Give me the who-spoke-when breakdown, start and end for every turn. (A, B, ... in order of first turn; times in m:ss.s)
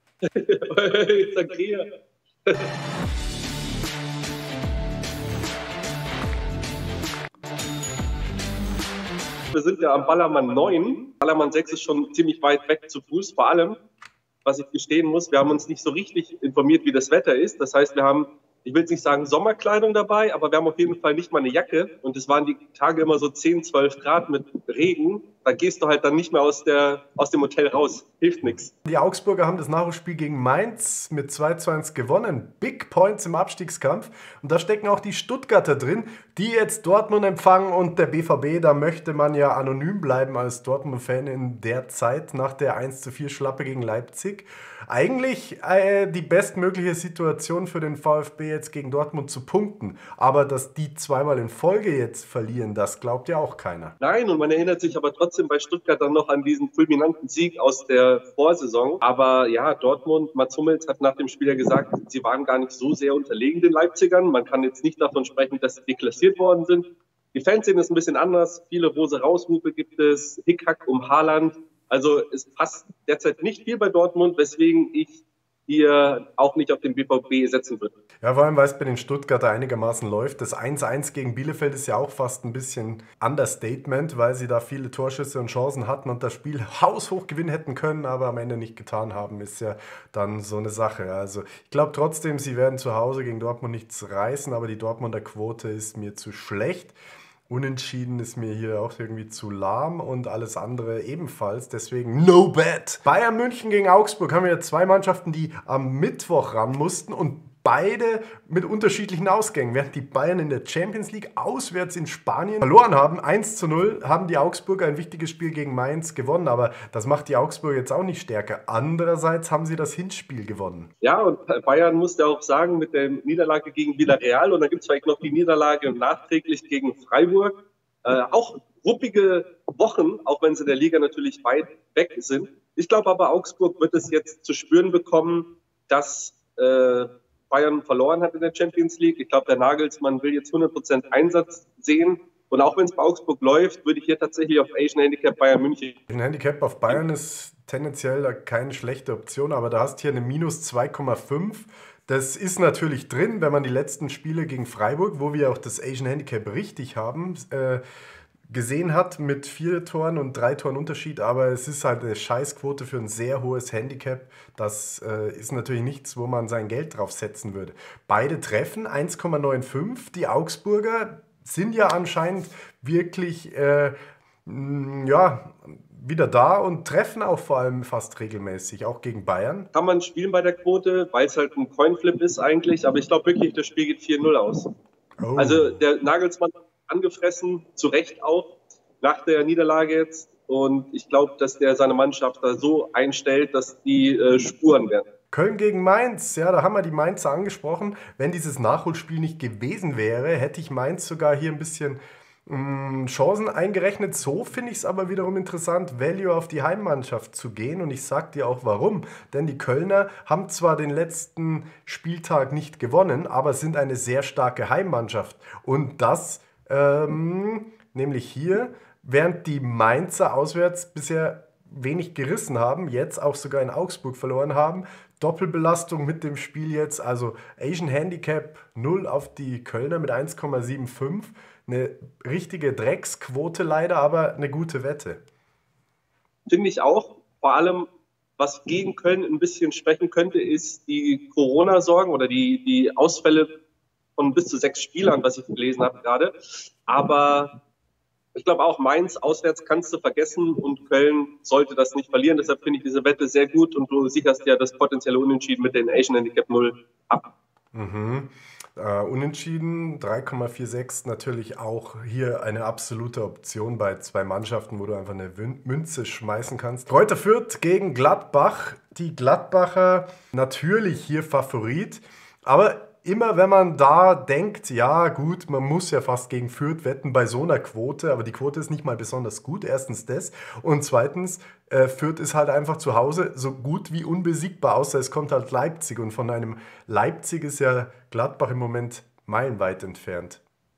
0:00.2-0:01.9 A
0:02.5-0:02.8 A
0:09.5-0:13.8 A
0:14.4-0:28.7 A
0:28.8-0:53.9 B
0:54.0-1:17.9 A
1:18.2-1:37.0 B
1:37.5-2:00.9 B
2:01.0-2:26.0 A
2:26.1-2:37.8 B
2:38.5-2:53.9 B
2:54.4-2:59.7 B
2:59.7-3:04.7 A
3:05.2-3:05.8 B
3:05.4-3:15.0 A
3:15.3-3:55.2 B
3:56.5-4:03.5 A
4:04.2-4:07.5 A
4:08.4-4:17.2 A
4:17.7-4:50.4 B